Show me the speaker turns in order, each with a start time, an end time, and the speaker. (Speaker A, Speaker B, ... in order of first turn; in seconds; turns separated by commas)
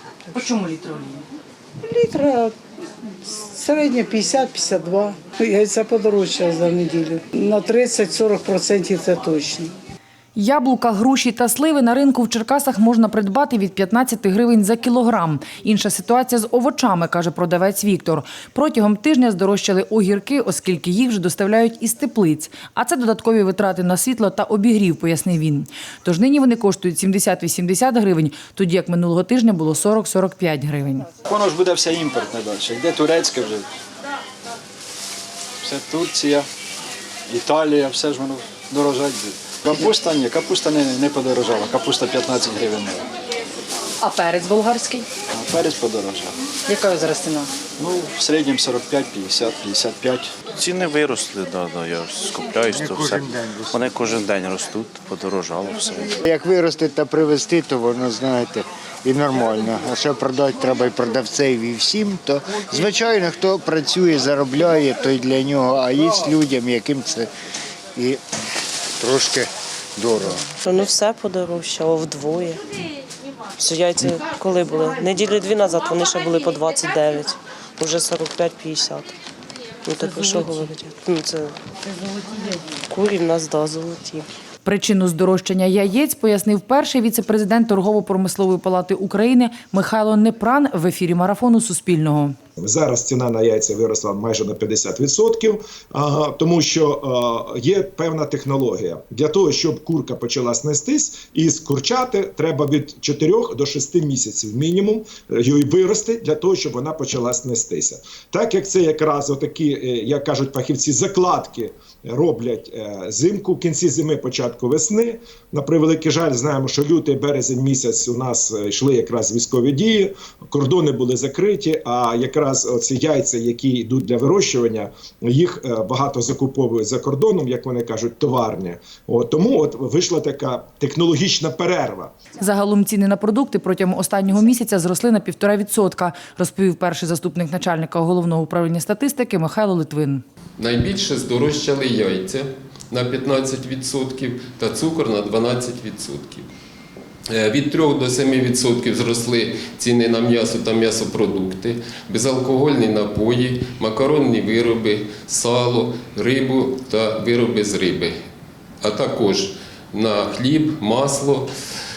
Speaker A: 0.3-1.2, Speaker B: 1.8-2.5, Speaker B: 3.2-9.7, Speaker A: 10.3-31.1, Speaker C: 31.3-33.7, Speaker C: 35.6-36.5, Speaker C: 37.3-43.0, Speaker A: 44.0-45.0, Speaker C: 45.3-46.3, Speaker A: 46.7-47.5, Speaker C: 47.8-50.3, Speaker D: 50.5-56.2, Speaker E: 52.7-53.9, Speaker E: 56.2-67.3, Speaker E: 69.0-70.4, Speaker F: 70.6-72.6, Speaker F: 73.6-79.1, Speaker F: 79.8-81.6, Speaker A: 80.0-80.5, Speaker F: 82.7-84.3, Speaker A: 84.6-92.3, Speaker G: 92.6-132.1, Speaker A: 132.4-140.2, Speaker H: 140.6-146.5, Speaker H: 147.3-158.1, Speaker H: 158.8-161.5